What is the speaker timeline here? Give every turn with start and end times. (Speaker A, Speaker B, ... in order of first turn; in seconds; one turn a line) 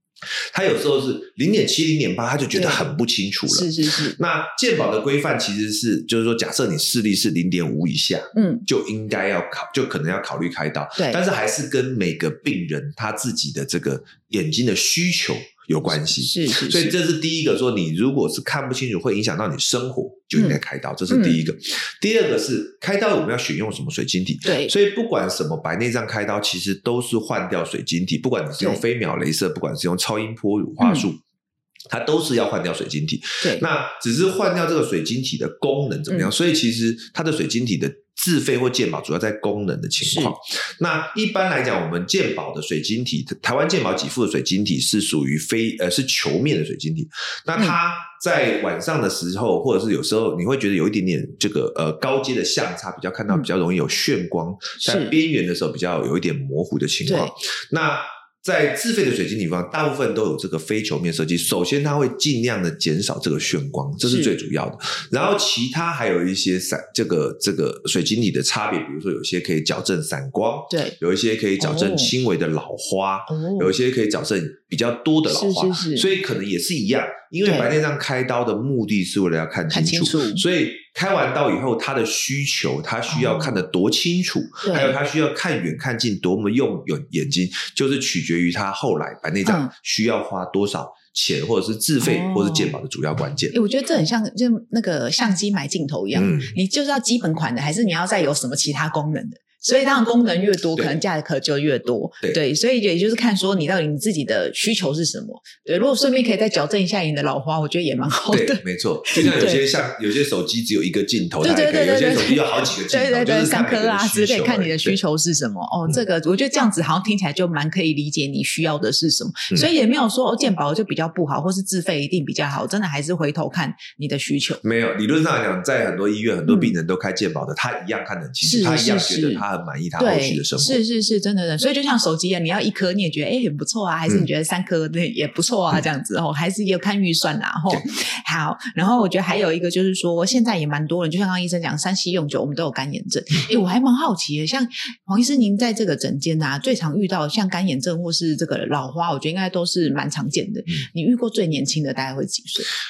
Speaker A: 0.2-31.2
Speaker B: 2.5-2.9
Speaker B: 3.5-4.2
Speaker B: 8.3-8.6
Speaker B: 15.9-16.9
Speaker B: 20.3-21.4
Speaker B: 24.4-24.7
Speaker B: 30.8-31.1
Speaker A: 31.9-93.5
Speaker B: 40.0-40.3
Speaker B: 54.8-55.1
Speaker B: 57.0-57.3
Speaker B: 64.0-64.3
Speaker B: 71.6-72.1
Speaker B: 73.3-73.7
Speaker B: 75.3-76.1
Speaker B: 77.4-77.7
Speaker B: 79.7-80.4
Speaker B: 83.1-83.5
Speaker B: 84.6-84.9
Speaker B: 89.4-89.7
Speaker B: 92.0-92.7
Speaker B: 93.5-109.6
Speaker A: 96.1-96.5
Speaker A: 108.3-115.0
Speaker B: 111.4-124.6
Speaker A: 124.6-130.8
Speaker B: 126.4-126.7
Speaker B: 128.4-129.4
Speaker B: 130.0-152.7